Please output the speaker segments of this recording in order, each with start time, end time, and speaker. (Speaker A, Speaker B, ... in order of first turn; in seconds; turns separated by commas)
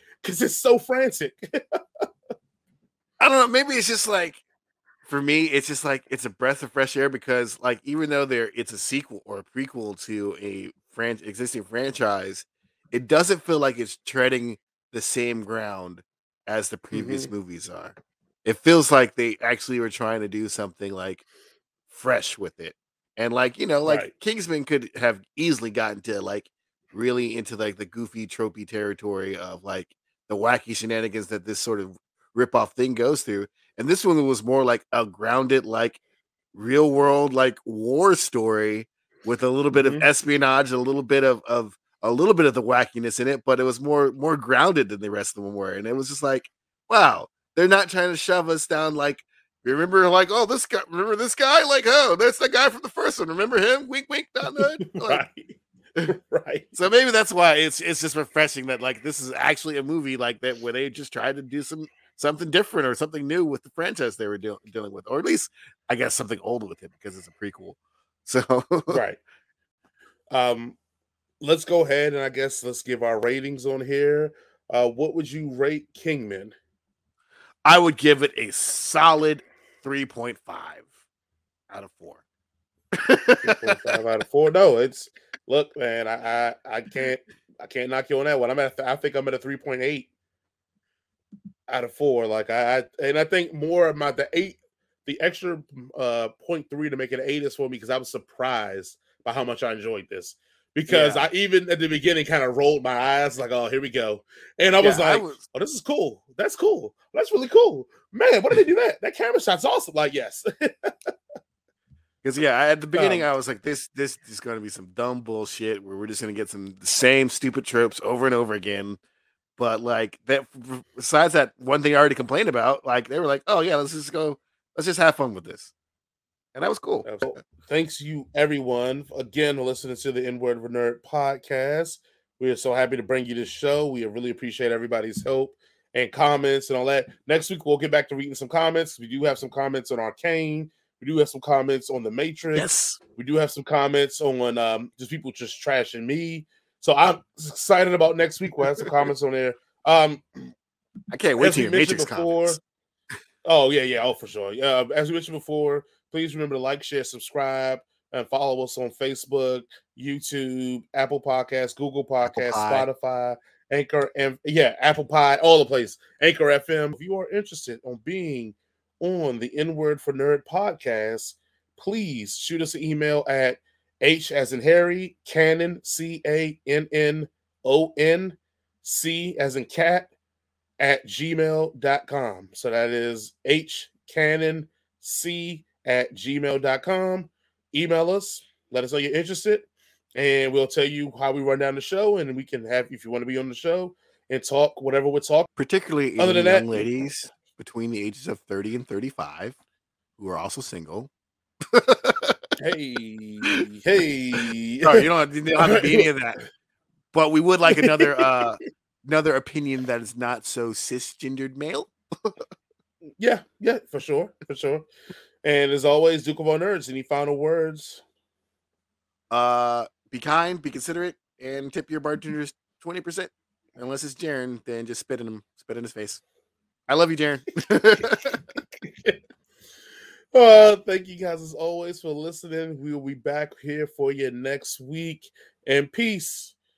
Speaker A: 0.2-1.8, Speaker B: 3.2-4.4, Speaker B: 5.0-21.2, Speaker A: 16.9-17.3, Speaker B: 21.9-36.0, Speaker A: 23.8-24.1, Speaker B: 36.5-55.2, Speaker A: 39.7-40.1, Speaker A: 54.4-56.8, Speaker B: 56.7-69.0, Speaker A: 68.9-69.2, Speaker A: 70.3-70.8, Speaker A: 71.4-76.5, Speaker B: 77.7-80.9, Speaker B: 81.7-82.2, Speaker B: 83.0-83.7, Speaker A: 83.4-90.1, Speaker A: 91.7-111.1, Speaker B: 100.9-101.3, Speaker B: 104.8-105.4, Speaker B: 112.2-119.0, Speaker A: 112.9-113.3, Speaker B: 119.6-125.7, Speaker B: 126.5-127.4, Speaker A: 127.0-150.5, Speaker B: 142.6-143.0, Speaker B: 151.1-152.6, Speaker A: 151.3-152.6, Speaker A: 153.4-180.1, Speaker B: 162.3-162.8, Speaker A: 180.8-195.5, Speaker B: 195.6-199.6, Speaker A: 196.2-197.2, Speaker B: 200.2-201.1, Speaker B: 201.7-202.4, Speaker A: 202.6-206.4, Speaker B: 204.8-206.4, Speaker B: 207.1-212.3, Speaker A: 207.7-208.6, Speaker A: 213.2-214.9, Speaker A: 215.4-218.0, Speaker B: 219.3-226.2, Speaker B: 226.9-228.4, Speaker A: 227.9-229.2, Speaker A: 230.3-236.6